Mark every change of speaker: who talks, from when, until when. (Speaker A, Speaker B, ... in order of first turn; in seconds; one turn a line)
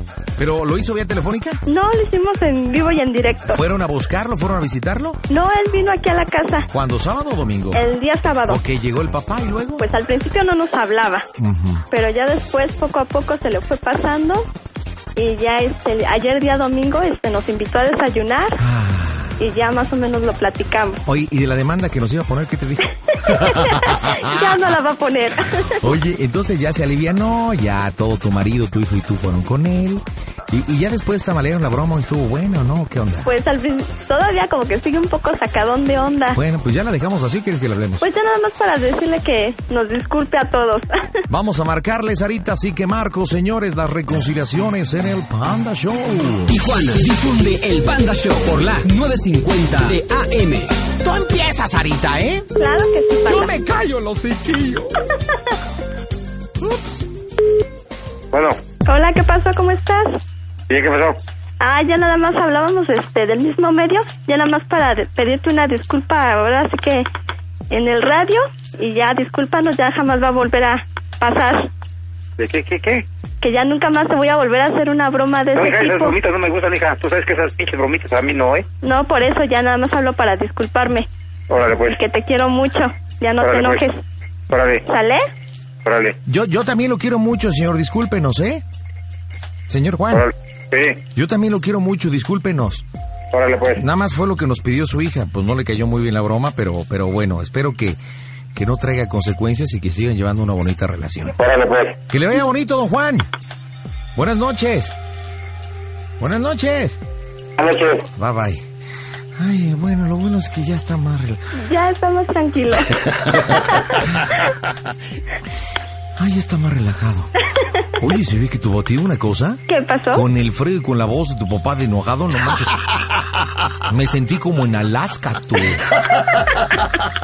Speaker A: 0.4-1.6
Speaker B: 1.7-3.6
Speaker A: 3.5-5.2
Speaker B: 5.3-6.7
Speaker A: 6.7-7.9
Speaker B: 7.7-8.6
Speaker A: 8.4-9.8
Speaker B: 9.8-11.3
Speaker A: 11.4-11.8
Speaker B: 11.9-14.4
Speaker B: 15.2-18.6
Speaker A: 18.6-19.4
Speaker B: 19.4-21.0
Speaker A: 21.1-24.8
Speaker B: 23.2-25.8
Speaker A: 25.7-33.3
Speaker B: 33.2-36.4
Speaker A: 36.3-38.1
Speaker B: 38.0-41.2
Speaker A: 41.3-46.6
Speaker C: 46.5-50.7
Speaker A: 51.0-52.5
Speaker B: 52.6-53.5
Speaker A: 53.2-54.9
Speaker A: 56.6-57.1
Speaker D: 58.3-58.6
Speaker B: 58.9-60.2
Speaker D: 60.7-61.2
Speaker B: 61.6-67.1
Speaker B: 67.7-71.7
Speaker D: 72.4-73.0
Speaker B: 73.4-76.2
Speaker D: 75.5-78.6
Speaker B: 78.8-81.1
Speaker D: 81.5-82.0
Speaker B: 81.9-84.0
Speaker D: 83.4-83.8
Speaker D: 84.5-84.8
Speaker B: 84.9-85.3
Speaker D: 85.8-86.2
Speaker A: 86.2-88.6
Speaker A: 89.7-90.3
Speaker D: 90.1-91.0
Speaker A: 91.1-92.8
Speaker D: 93.3-93.8
Speaker A: 93.8-98.0
Speaker A: 98.5-101.4
Speaker D: 101.4-102.0
Speaker A: 102.1-103.3
Speaker A: 104.2-105.0
Speaker A: 106.2-107.0
Speaker D: 107.6-108.1
Speaker A: 108.2-108.6
Speaker A: 109.4-111.5
Speaker B: 111.5-114.0
Speaker A: 116.2-117.3
Speaker A: 117.9-119.6
Speaker B: 119.7-120.2
Speaker A: 120.1-122.8
Speaker A: 123.8-126.0